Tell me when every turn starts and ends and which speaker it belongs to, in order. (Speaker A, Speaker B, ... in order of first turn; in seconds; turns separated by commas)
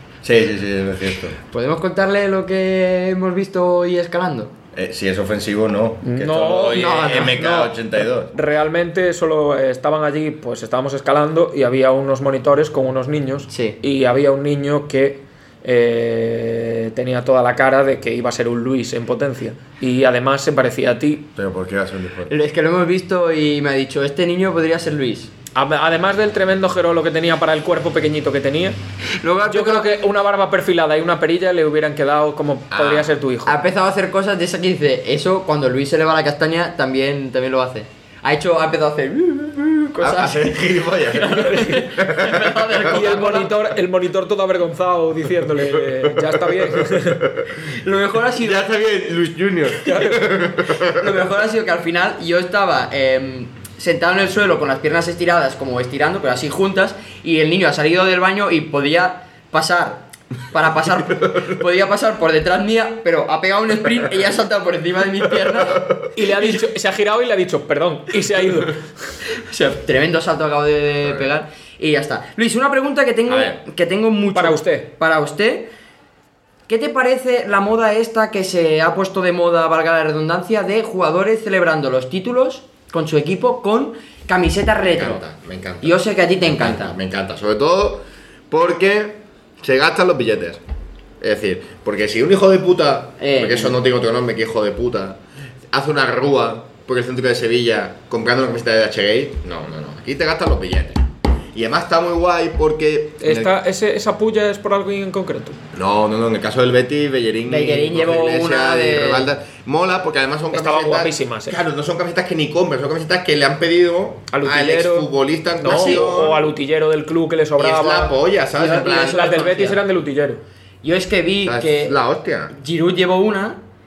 Speaker A: 0.2-1.4, Speaker B: 1.5-4.5, Speaker A: 4.8-8.3, Speaker C: 6.0-21.3, Speaker B: 6.7-7.4, Speaker B: 13.5-13.8, Speaker A: 21.4-22.3, Speaker B: 22.3-25.3, Speaker C: 25.6-28.8, Speaker B: 29.2-29.9, Speaker C: 29.5-33.6, Speaker A: 32.7-33.1, Speaker B: 33.5-43.6, Speaker A: 40.0-43.0, Speaker C: 42.8-47.3, Speaker A: 45.8-47.5, Speaker B: 47.6-48.7, Speaker A: 48.4-51.1, Speaker C: 49.9-50.3, Speaker B: 50.8-66.5, Speaker C: 66.1-68.8, Speaker B: 69.3-75.7, Speaker A: 73.3-73.6, Speaker C: 74.3-74.9, Speaker B: 76.7-85.2, Speaker A: 84.9-90.6, Speaker B: 85.8-87.0, Speaker A: 91.2-95.2, Speaker B: 93.2-93.8, Speaker A: 95.7-103.5, Speaker C: 103.2-105.6, Speaker A: 105.7-116.4, Speaker B: 107.5-109.3, Speaker C: 110.5-111.6, Speaker C: 114.3-115.1, Speaker C: 115.6-118.1, Speaker B: 115.7-116.0, Speaker A: 117.6-119.2, Speaker B: 118.6-119.8, Speaker C: 118.8-120.4, Speaker B: 120.8-122.0, Speaker A: 121.4-122.5, Speaker B: 122.5-123.6